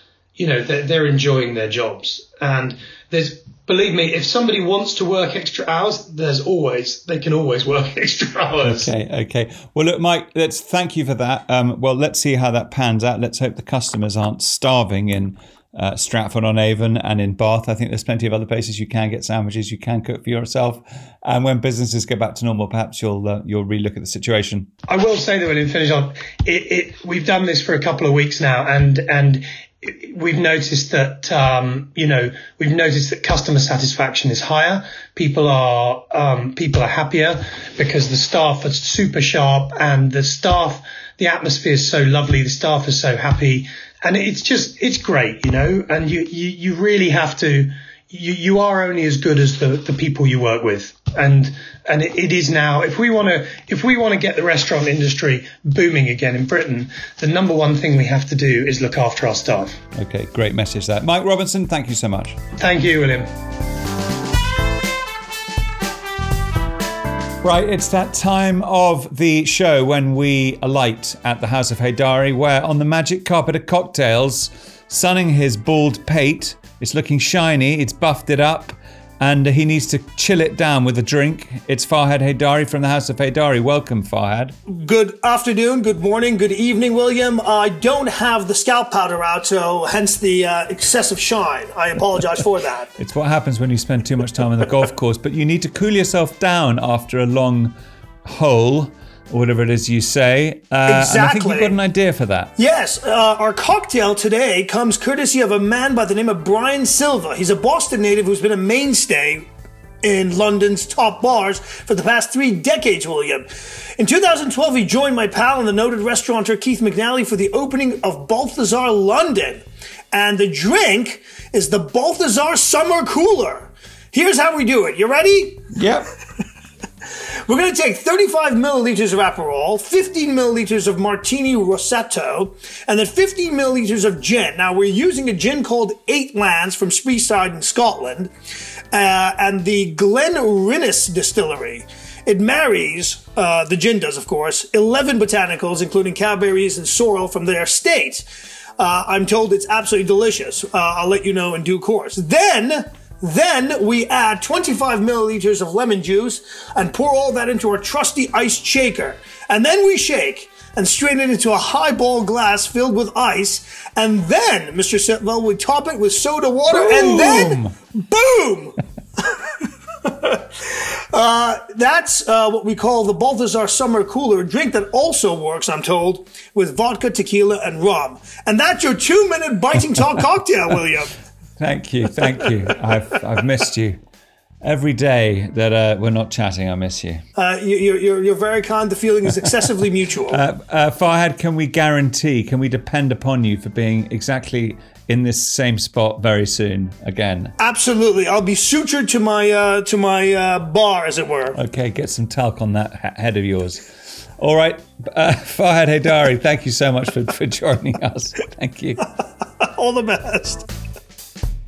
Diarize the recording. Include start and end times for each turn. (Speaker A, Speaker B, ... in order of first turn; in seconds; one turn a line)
Speaker A: 0.4-8.9
Speaker B: 8.6-24.7
Speaker A: 24.9-59.8
Speaker B: 59.9-62.4
Speaker A: 62.6-63.3
Speaker B: 67.4-84.5
Speaker C: 84.7-92.9
Speaker B: 93.0-97.7
Speaker B: 98.2-102.5
Speaker C: 100.9-101.7
Speaker C: 102.6-109.5
Speaker C: 110.0-125.7
Speaker B: 125.7-126.1
Speaker C: 127.5-138.3
Speaker C: 138.9-148.2
Speaker C: 148.8-168.8
Speaker B: 166.7-167.7
Speaker C: 170.0-181.1
Speaker B: 181.6-184.0
Speaker B: 184.6-187.2
Speaker C: 187.4-190.4
Speaker B: 190.3-197.5
Speaker C: 197.6-201.6
Speaker B: 201.5-203.9
Speaker B: 204.4-209.0
Speaker C: 209.6-210.7